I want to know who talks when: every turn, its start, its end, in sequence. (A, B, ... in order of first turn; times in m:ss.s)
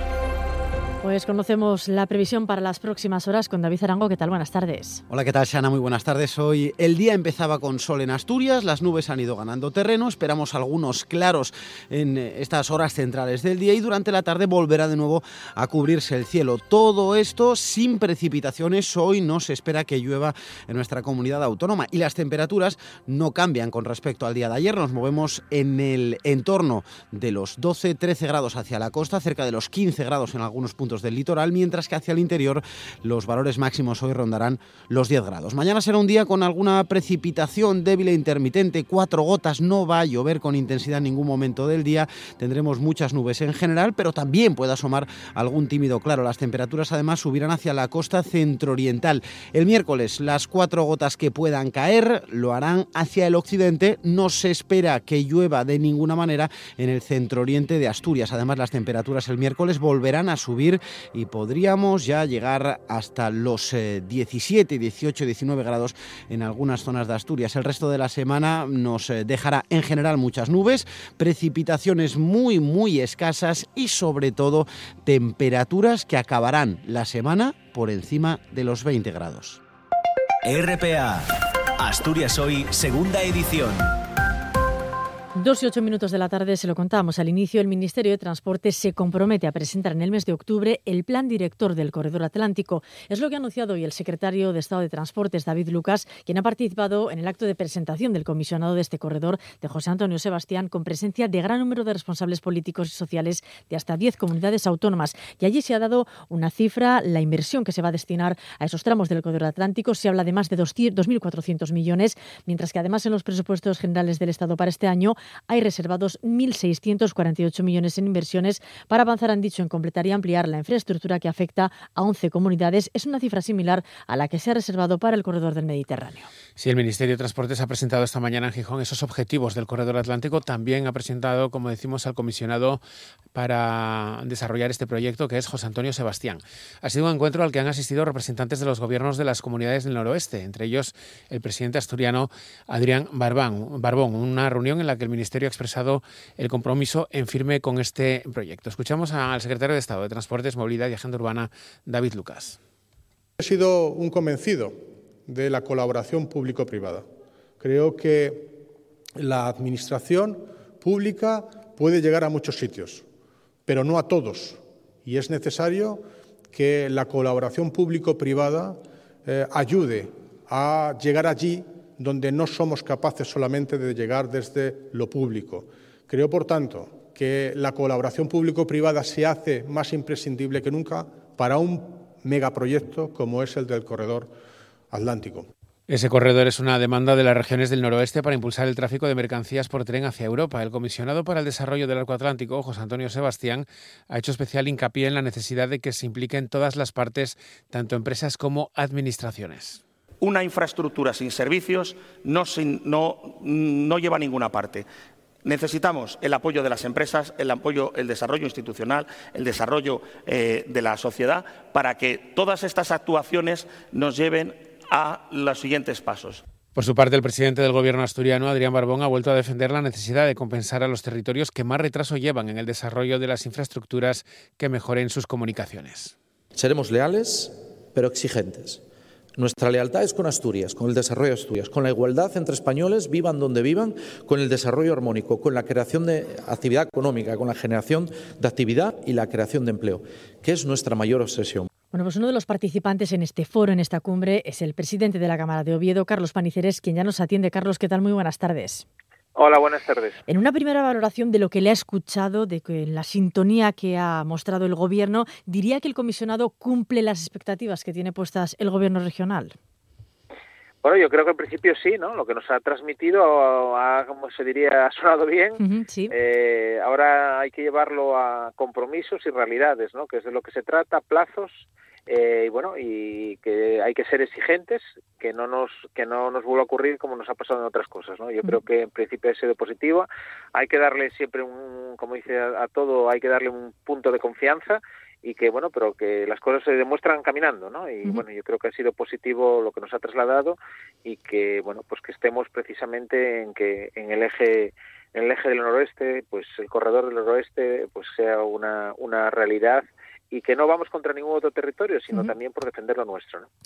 0:01.0-0:05.0 A
0:05.1-1:19.6 B
1:20.4-1:21.2 C
1:21.8-1:23.9 C
1:25.3-2:06.3 A
2:06.6-2:12.8 D
2:13.3-2:32.6 D
2:33.4-2:37.0 E
2:37.6-2:38.6 E
2:39.2-2:43.0 E
2:43.7-3:04.3 E
3:04.9-3:05.5 E
3:05.9-3:19.8 D
3:20.2-3:24.8 F
3:25.4-3:36.4 F
3:36.8-3:46.1 D
3:46.6-3:48.8 G
3:49.4-4:01.7 G
4:01.9-4:08.8 A
4:09.3-4:10.2 H
4:10.3-4:19.6 A
4:20.8-5:03.5 H
4:25.6-4:26.1 A